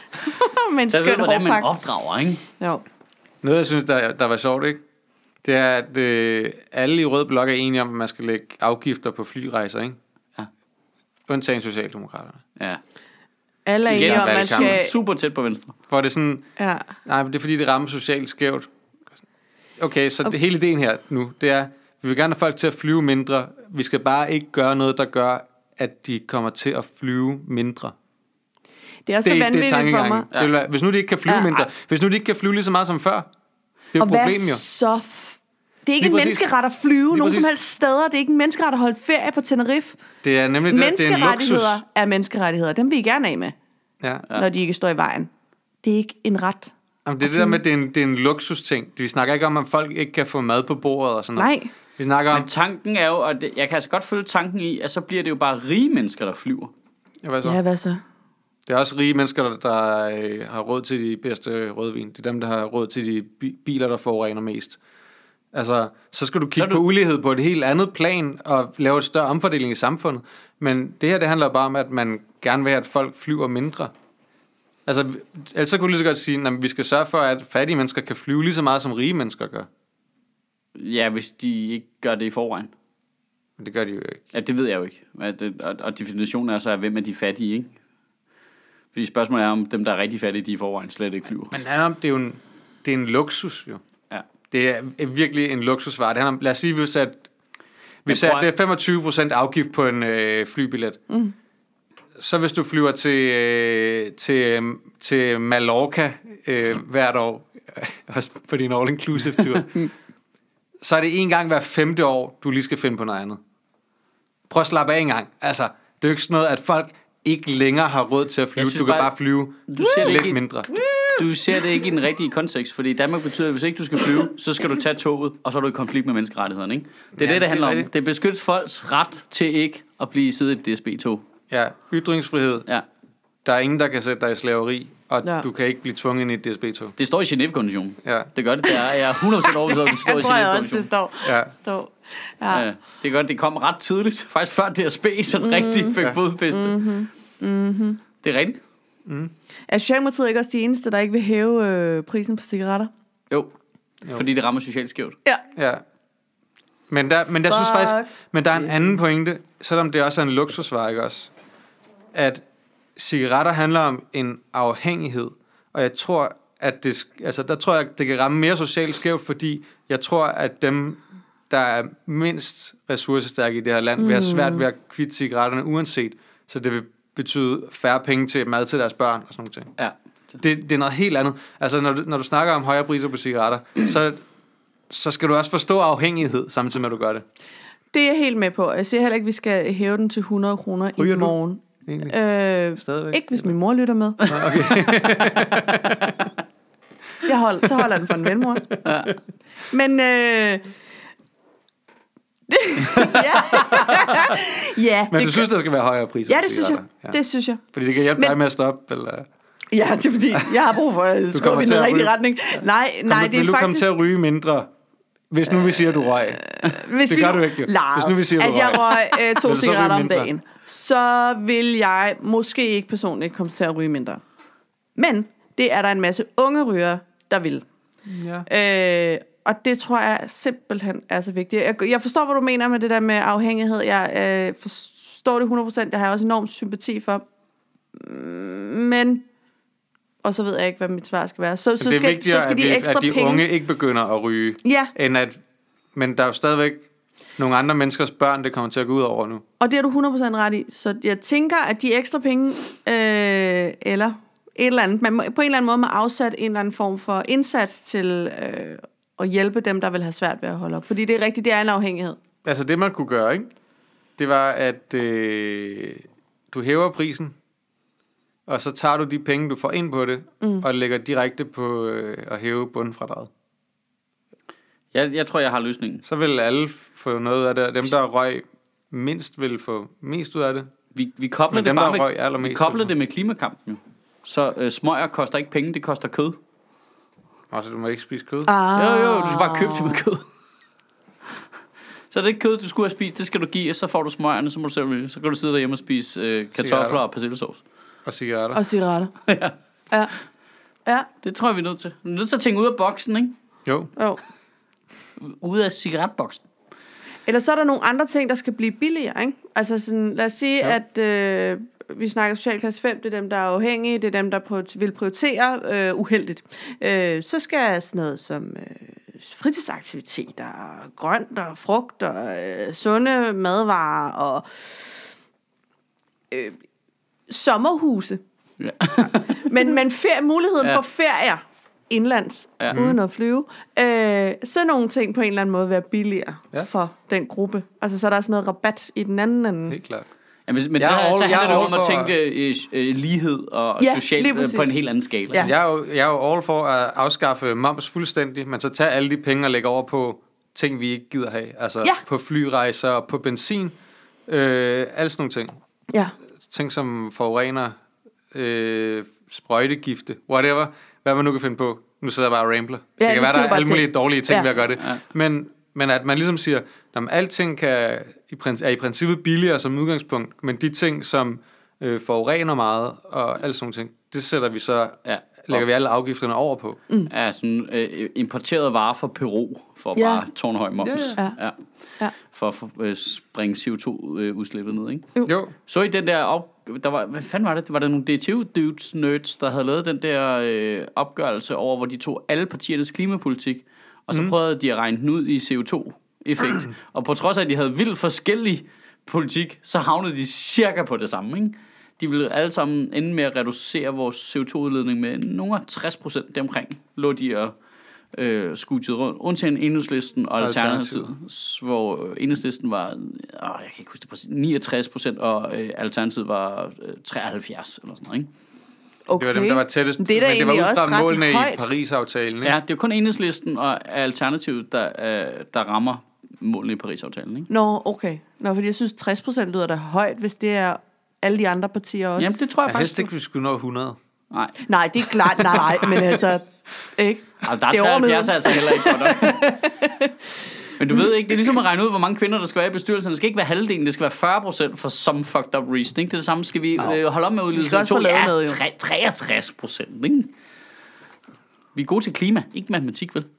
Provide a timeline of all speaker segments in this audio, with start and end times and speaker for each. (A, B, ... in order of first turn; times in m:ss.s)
0:00.2-0:01.7 A
0:00.9-0:02.4 B
0:03.4-0:04.8 C
0:05.4-0:10.0 C
0:11.3-0:12.4 C
0:13.7-0:14.9 A
0:13.9-0:15.8 B
0:13.9-0:14.8 C
0:15.9-0:16.4 C
0:16.6-0:16.9 A
0:17.0-0:18.7 C
0:19.8-0:28.0 C
0:29.1-0:30.3 A
0:29.2-0:33.3 C
0:31.3-0:31.7 A
0:33.9-0:34.6 C
0:34.0-0:40.0 A
0:36.0-0:36.4 C
0:37.1-0:37.5 C
0:40.2-0:41.8 C
0:40.7-0:43.6 A
0:44.0-0:44.3 C
0:44.3-0:45.3 A
0:45.8-0:47.6 A
0:47.0-0:52.5 C
0:51.4-0:51.7 A
0:52.3-0:56.7 B
0:57.2-0:57.6 C
0:57.4-0:58.0 A
0:58.7-1:04.8 C
1:05.5-1:13.9 C
1:14.9-1:19.7 C
1:20.8-1:22.7 B
1:23.6-1:24.3 C
1:24.3-1:27.7 B
1:28.9-1:31.6 B
1:31.5-1:33.8 C
1:34.5-1:37.3 C
1:38.0-1:41.0 C
1:38.1-1:38.5 B
1:42.2-1:49.9 C
1:50.8-1:53.4 C
1:54.5-2:00.8 C
1:58.6-1:59.1 B
1:59.7-2:00.4 B
2:00.7-2:01.8 A
2:01.2-2:11.2 B
2:07.2-2:07.9 C
2:11.5-2:12.7 C
2:13.4-2:16.9 C
2:17.0-2:20.9 B
2:18.0-2:18.3 C
2:19.4-2:22.7 A
2:21.2-2:21.5 C
2:22.5-2:26.8 B
2:25.4-2:28.0 A
2:28.2-2:28.6 B
2:29.1-2:29.3 C
2:29.7-2:32.9 A
2:34.1-2:35.2 B
2:35.6-2:35.8 C
2:36.9-2:41.3 C
2:37.5-2:38.1 A
2:42.1-2:42.4 C
2:43.0-2:59.7 C
2:54.0-2:54.6 A
3:00.4-3:04.2 C
3:04.9-3:07.2 C
3:07.9-3:14.4 A
3:11.0-3:11.3 C
3:11.8-3:12.2 C
3:12.8-3:13.4 C
3:14.3-3:16.2 C
3:17.2-3:18.7 A
3:18.6-3:19.1 C
3:18.8-3:19.1 B
3:19.7-3:20.7 A
3:22.5-3:25.5 A
3:22.9-3:24.4 C
3:25.1-3:27.2 C
3:26.3-3:27.6 A
3:27.7-3:29.3 C
3:29.7-3:34.0 A
3:31.3-3:34.7 C
3:35.3-3:40.3 C
3:36.4-3:44.2 A
3:45.0-3:47.6 A
3:48.1-3:48.5 C
3:48.5-3:57.2 A
3:58.0-3:59.2 A
4:00.2-4:03.5 A
4:01.8-4:05.4 C
4:04.6-4:04.9 A
4:06.0-4:06.9 C
4:07.4-4:09.4 C
4:09.6-4:22.2 A
4:22.4-4:23.5 C
4:24.2-4:27.3 C
4:28.5-4:33.3 C
4:34.9-4:36.0 B
4:36.0-4:40.7 C
4:41.0-4:46.4 B
4:41.5-4:42.9 C
4:47.5-4:48.5 C
4:48.4-4:50.0 A
4:48.8-4:50.2 B
4:52.1-4:57.6 B
4:56.6-4:57.0 C
4:58.1-4:58.6 C
4:58.5-4:59.1 A
4:59.3-4:59.6 B
5:01.2-5:03.3 B
5:04.0-5:04.2 A
5:05.2-5:06.4 B
5:07.3-5:24.7 A
5:26.3-5:26.6 A
5:27.3-5:28.2 A
5:28.6-5:29.7 B
5:28.9-5:39.8 A
5:32.7-5:33.0 C
5:39.7-5:40.1 C
5:40.5-5:45.5 B
5:40.8-5:42.1 C
5:43.8-5:44.8 A
5:45.4-5:53.7 C
5:54.3-5:55.5 C
5:56.4-5:57.8 C
5:58.3-6:16.8 C
6:03.0-6:04.5 A
6:15.0-6:15.6 B
6:17.1-6:21.6 B
6:20.0-6:20.2 A
6:20.8-6:21.2 C
6:22.2-6:25.1 B
6:25.3-6:25.5 C
6:25.7-6:47.5 B
6:48.1-6:58.3 B
6:50.4-6:51.1 C
6:59.1-7:01.6 A
6:59.2-7:02.6 C
7:02.4-7:07.5 B
7:07.5-7:12.4 A
7:12.2-7:13.1 B
7:12.6-7:14.0 C
7:14.3-7:14.6 B
7:14.6-7:20.1 A
7:15.6-7:16.0 C
7:17.5-7:19.6 B
7:20.8-7:30.3 B
7:27.5-7:28.6 A
7:31.8-7:33.3 B